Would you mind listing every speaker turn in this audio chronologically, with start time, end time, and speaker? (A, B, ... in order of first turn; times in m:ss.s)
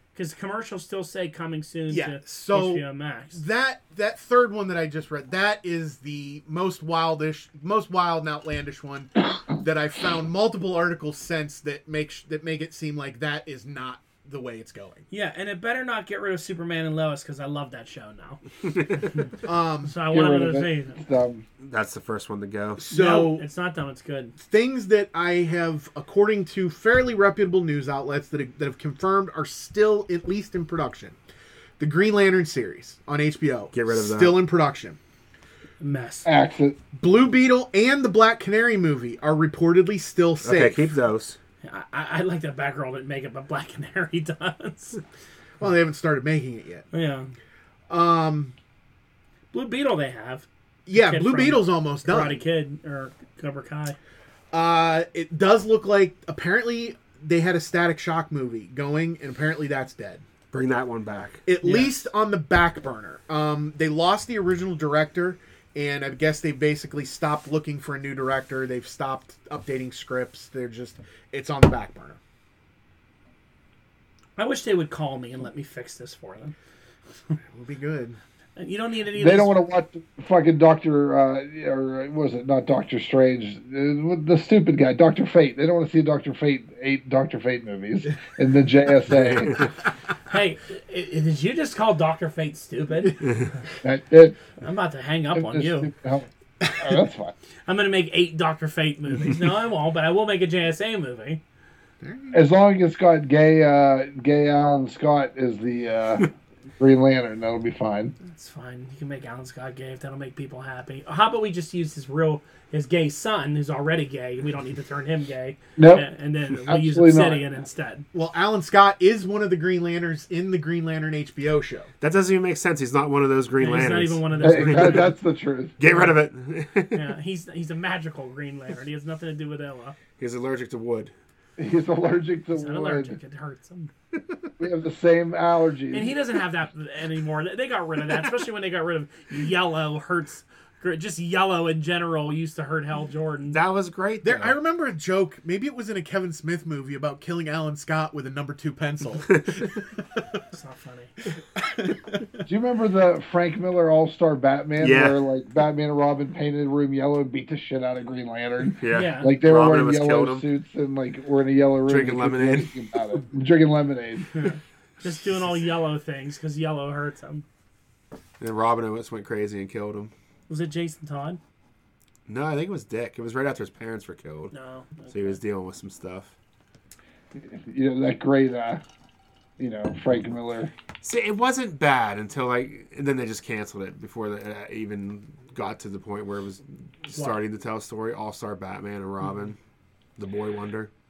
0:00.1-0:03.4 A
0:01.9-0:15.1 B
0:15.1-0:18.4 A
0:19.0-0:19.3 A
0:19.4-0:20.0 B
0:19.8-0:21.0 A
0:20.1-0:21.4 C
0:21.6-0:22.8 D
0:22.8-0:23.4 B
0:22.9-0:24.4 A
0:24.4-0:31.2 B
0:31.8-0:35.0 B
0:33.7-0:34.4 D
0:35.8-0:36.3 A
0:36.2-0:36.8 C
0:36.9-0:40.9 B
0:40.4-0:41.4 D
0:41.6-0:45.0 A
0:45.6-0:46.9 B
0:46.9-0:47.3 A
0:47.9-0:48.5 B
0:49.5-0:54.0 A
0:50.9-0:52.4 B
0:54.5-1:00.2 B
1:00.5-1:01.4 D
1:01.5-1:12.2 B
1:01.6-1:02.0 A
1:14.4-1:16.6 A
1:17.5-1:18.2 B
1:18.6-1:19.6 A
1:19.2-1:29.6 C
1:29.1-1:29.7 D
1:30.3-1:33.2 A
1:33.2-1:33.5 D
1:33.8-1:34.4 C
1:34.6-1:35.9 A
1:35.3-1:37.3 C
1:36.7-1:36.9 B
1:37.7-1:41.4 A
1:42.0-1:42.4 B
1:42.3-1:48.1 C
1:48.2-1:58.1 A
1:55.8-1:56.1 C
1:56.7-1:57.4 C
1:58.1-2:01.9 B
2:02.0-2:05.1 D
2:03.6-2:05.1 A
2:04.4-2:05.8 C
2:05.8-2:07.1 D
2:06.9-2:10.0 A
2:10.2-2:11.1 D
2:11.6-2:13.2 C
2:12.5-2:13.9 A
2:14.6-2:16.1 C
2:15.9-2:23.6 A
2:23.5-2:24.6 D
2:24.2-2:30.2 B
2:29.3-2:29.7 D
2:30.5-2:31.2 A
2:31.6-2:32.3 B
2:32.5-2:44.5 C
2:34.8-2:35.2 D
2:38.8-2:40.4 D
2:38.9-2:39.4 A
2:41.9-2:42.7 D
2:44.3-2:47.4 A
2:48.4-2:50.1 D
2:50.5-2:51.4 A
2:52.3-2:54.5 D
2:54.5-2:55.4 A
2:55.1-2:56.3 D
2:57.4-2:58.8 C
2:59.6-3:00.7 C
3:01.0-3:09.6 D
3:07.1-3:07.4 A
3:10.2-3:10.9 D